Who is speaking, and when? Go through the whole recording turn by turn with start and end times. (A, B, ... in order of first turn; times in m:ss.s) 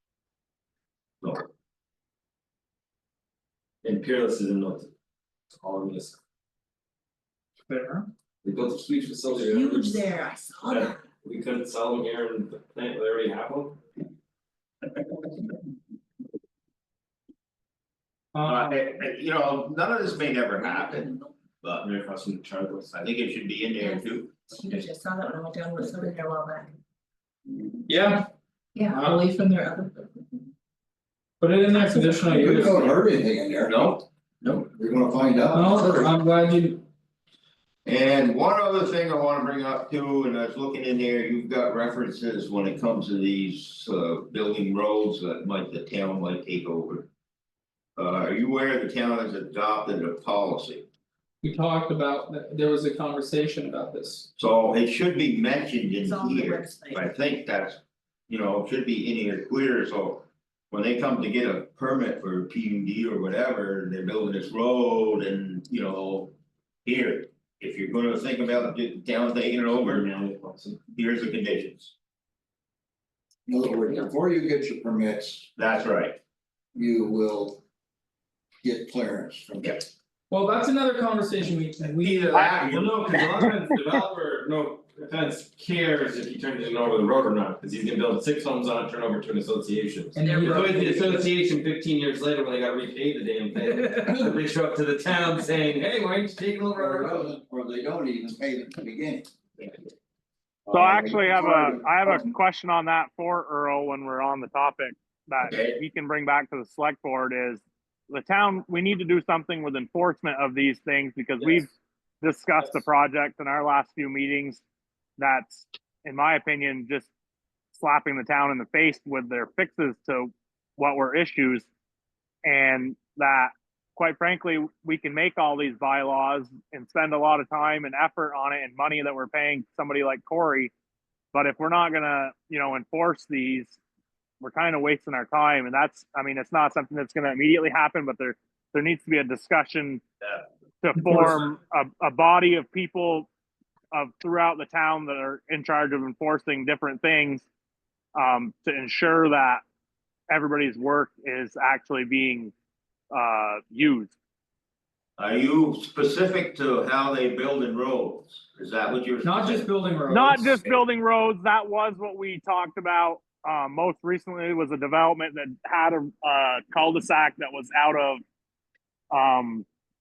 0:03.8-0:04.9 A
0:05.5-0:06.2 A
0:07.7-0:08.1 B
0:08.4-0:10.0 A
0:09.3-0:11.0 C
0:10.6-0:13.8 A
0:18.3-0:18.8 B
0:18.4-0:21.8 D
0:20.6-0:21.3 C
0:21.8-0:23.1 A
0:23.0-0:24.4 D
0:23.8-0:26.7 C
0:27.9-0:28.3 B
0:28.7-0:30.5 C
0:28.9-0:29.2 B
0:31.4-0:32.8 B
0:31.8-0:32.1 C
0:32.0-0:33.8 E
0:33.6-0:34.0 D
0:34.4-0:35.9 E
0:35.5-0:36.8 B
0:37.8-0:47.1 D
0:48.0-0:50.8 D
0:51.4-0:54.3 B
0:54.4-1:10.1 D
0:56.0-0:57.0 C
1:09.7-1:10.8 A
1:10.9-1:11.9 D
1:13.4-1:15.5 E
1:15.6-1:16.2 D
1:16.7-1:17.6 E
1:18.6-1:19.9 E
1:19.6-1:19.8 D
1:20.3-1:22.4 B
1:21.9-1:23.0 D
1:22.3-1:22.7 F
1:22.6-1:37.3 A
1:23.2-1:23.5 F
1:30.1-1:31.3 B
1:30.2-1:30.8 C
1:33.8-1:34.1 B
1:36.7-1:39.3 E
1:40.6-1:42.3 E
1:40.7-1:51.7 F
1:45.5-1:45.8 D
1:51.4-1:51.6 A
1:52.2-1:54.6 F
1:55.2-1:57.1 F
1:57.7-2:01.7 F
2:02.4-2:10.7 F
2:11.3-2:13.8 F
2:14.4-2:20.0 F
2:20.8-2:23.3 F
2:23.9-2:27.4 F
2:28.1-2:29.6 F
2:30.3-2:32.5 F
2:33.1-2:34.1 F
2:35.2-2:39.7 D
2:39.2-2:40.8 B
2:40.1-2:48.2 F
2:49.1-2:49.6 F